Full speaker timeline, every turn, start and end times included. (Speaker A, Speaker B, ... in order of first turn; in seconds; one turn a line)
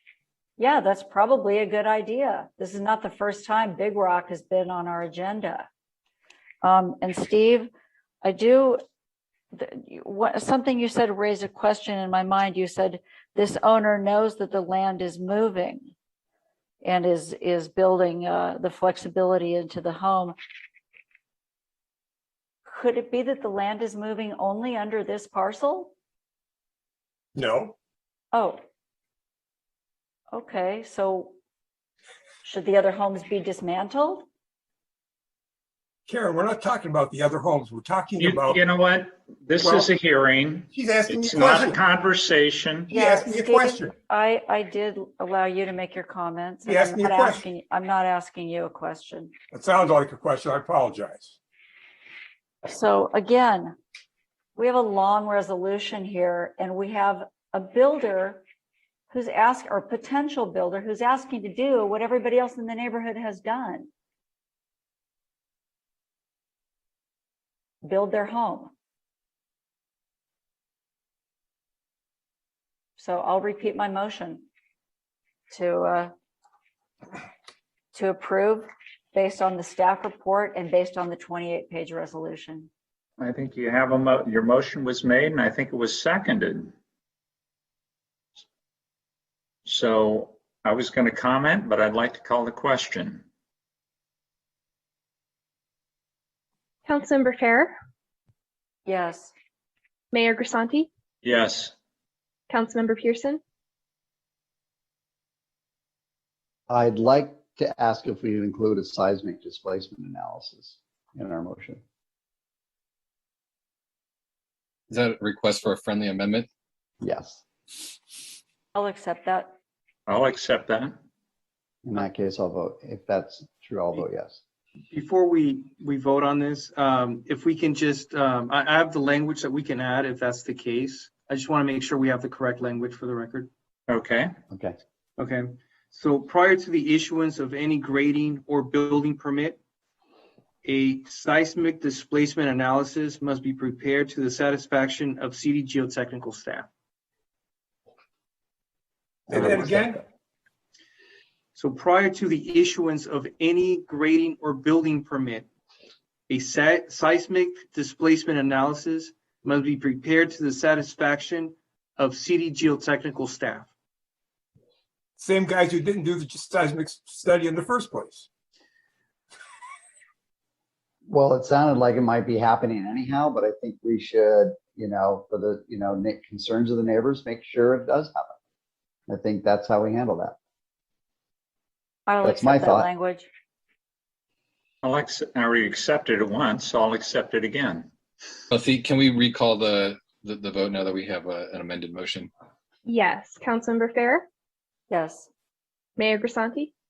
Speaker A: 0.6-5.7
Speaker A: 6.6-7.7
Speaker A: 8.2-8.8
Speaker A: 9.5-15.9
Speaker A: 16.8-20.4
Speaker A: 22.7-25.9
Speaker B: 27.4-27.8
Speaker A: 28.3-28.6
Speaker A: 30.3-31.3
Speaker A: 32.4-34.3
Speaker B: 36.1-38.6
Speaker C: 38.2-42.9
Speaker B: 39.6-39.9
Speaker B: 40.7-41.8
Speaker A: 42.9-49.3
Speaker B: 42.9-43.9
Speaker B: 46.7-47.5
Speaker B: 49.5-51.4
Speaker A: 52.7-53.8
Speaker A: 54.6-58.4
Speaker A: 59.1-63.9
Speaker A: 67.8-68.7
Speaker A: 73.0-74.5
Speaker A: 75.5-76.1
Speaker A: 77.9-82.7
Speaker C: 83.2-86.7
Speaker C: 89.7-93.2
Speaker D: 96.8-97.7
Speaker A: 98.9-99.3
Speaker D: 100.1-100.9
Speaker C: 101.2-101.7
Speaker D: 102.5-103.4
Speaker E: 106.7-111.8
Speaker F: 114.9-116.5
Speaker E: 117.0-117.4
Speaker A: 118.8-119.5
Speaker C: 120.1-121.0
Speaker E: 121.8-124.4
Speaker G: 124.9-133.5
Speaker C: 133.9-134.3
Speaker E: 134.5-134.8
Speaker G: 135.2-139.6
Speaker G: 140.6-146.7
Speaker B: 149.3-150.0
Speaker G: 151.6-155.5
Speaker G: 156.3-163.7
Speaker B: 165.2-168.3
Speaker E: 171.1-178.3
Speaker E: 179.1-180.4
Speaker A: 182.1-183.3
Speaker E: 182.2-182.9
Speaker C: 184.8-187.9
Speaker F: 188.5-192.3
Speaker D: 192.8-194.3
Speaker A: 194.9-195.3
Speaker D: 196.0-196.7